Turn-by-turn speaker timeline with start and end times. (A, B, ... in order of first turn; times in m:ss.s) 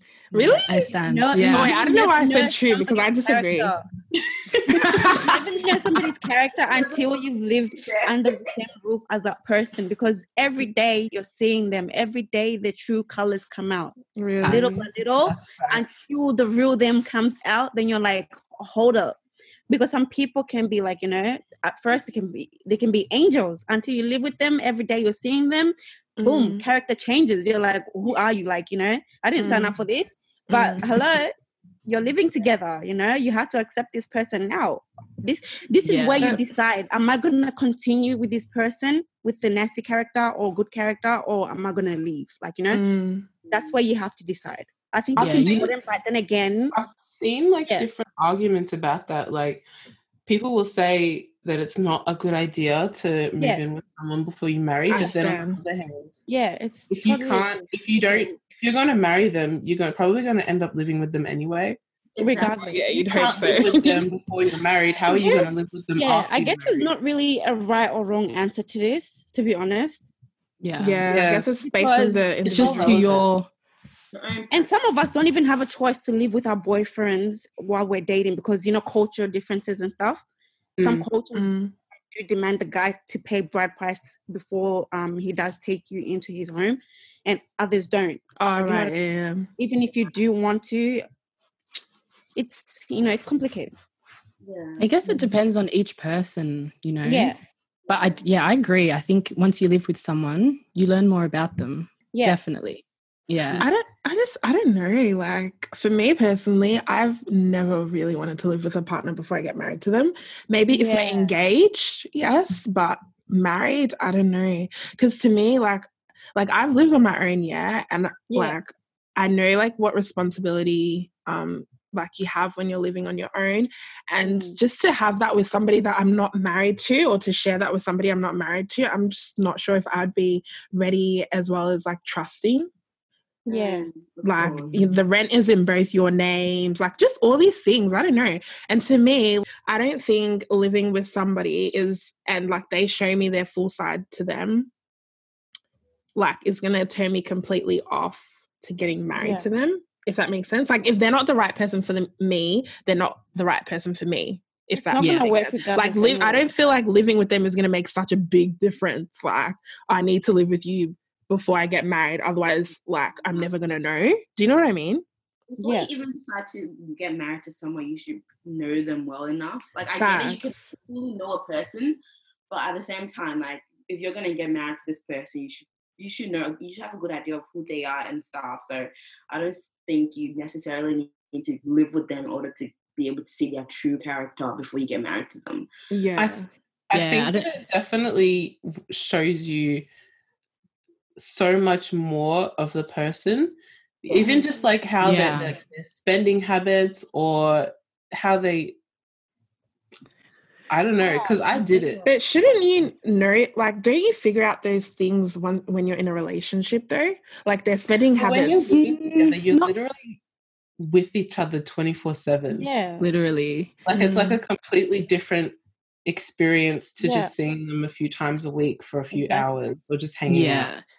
0:00.3-0:01.8 A
0:00.3-0:03.7 B
0:01.0-0:03.8 C
0:04.5-0:05.4 B
0:04.9-0:19.2 C
0:06.7-0:07.2 D
0:07.7-0:08.5 D
0:14.2-0:14.9 B
0:14.4-0:14.8 A
0:15.2-0:15.9 E
0:19.7-0:31.3 C
0:26.2-0:26.6 B
0:29.4-0:29.8 B
0:30.5-0:30.9 B
0:31.8-0:42.8 C
0:35.8-0:36.4 A
0:42.7-0:43.3 B
0:43.4-0:43.7 D
0:43.5-0:46.7 C
0:45.2-0:45.7 A
0:45.2-0:45.7 E
0:46.7-0:49.6 E
0:50.2-0:56.2 E
0:54.9-0:55.6 B
0:56.3-0:58.4 C
0:56.9-1:01.8 E
1:02.1-1:03.6 D
1:02.2-1:02.8 C
1:02.7-1:04.0 B
1:03.1-1:06.9 E
1:05.1-1:10.0 C
1:10.6-1:11.0 A
1:10.8-1:13.2 B
1:11.1-1:11.5 E
1:11.7-1:12.3 C
1:12.4-1:13.5 A
1:12.5-1:13.2 D
1:14.1-1:14.7 D
1:14.5-1:20.2 C
1:20.8-1:21.1 E
1:20.8-1:21.5 C
1:21.3-1:21.7 B
1:22.1-1:29.0 C
1:28.4-1:29.5 B
1:29.6-1:31.0 C
1:32.4-1:33.7 C
1:34.4-1:34.9 D
1:34.8-1:37.3 A
1:37.0-1:37.4 C
1:37.9-1:43.7 A
1:42.1-1:42.4 C
1:43.6-2:12.7 B
1:50.7-1:51.3 C
1:58.3-1:58.6 C
2:04.2-2:04.6 C
2:13.4-2:14.7 D
2:13.5-2:13.9 C
2:14.2-2:24.7 B
2:26.2-2:45.0 B
2:29.2-2:29.4 C
2:34.7-2:36.5 C
2:35.0-2:35.3 A
2:45.5-2:52.0 D
2:45.6-2:45.9 C
2:50.0-2:50.7 B
2:52.5-3:05.7 D
3:05.9-3:06.5 B
3:06.2-3:09.9 E
3:06.9-3:07.5 A
3:11.2-3:18.8 E
3:14.1-3:14.5 D
3:15.0-3:15.5 A
3:20.7-3:22.1 E
3:21.0-3:22.0 C
3:22.0-3:28.9 B
3:28.2-3:30.2 E
3:28.7-3:29.7 A
3:30.8-3:32.7 E
3:32.5-3:33.1 C
3:33.0-3:33.7 A
3:33.8-3:40.7 E
3:33.9-3:34.4 B
3:37.0-3:37.3 C
3:39.1-3:39.4 C
3:40.3-3:40.8 A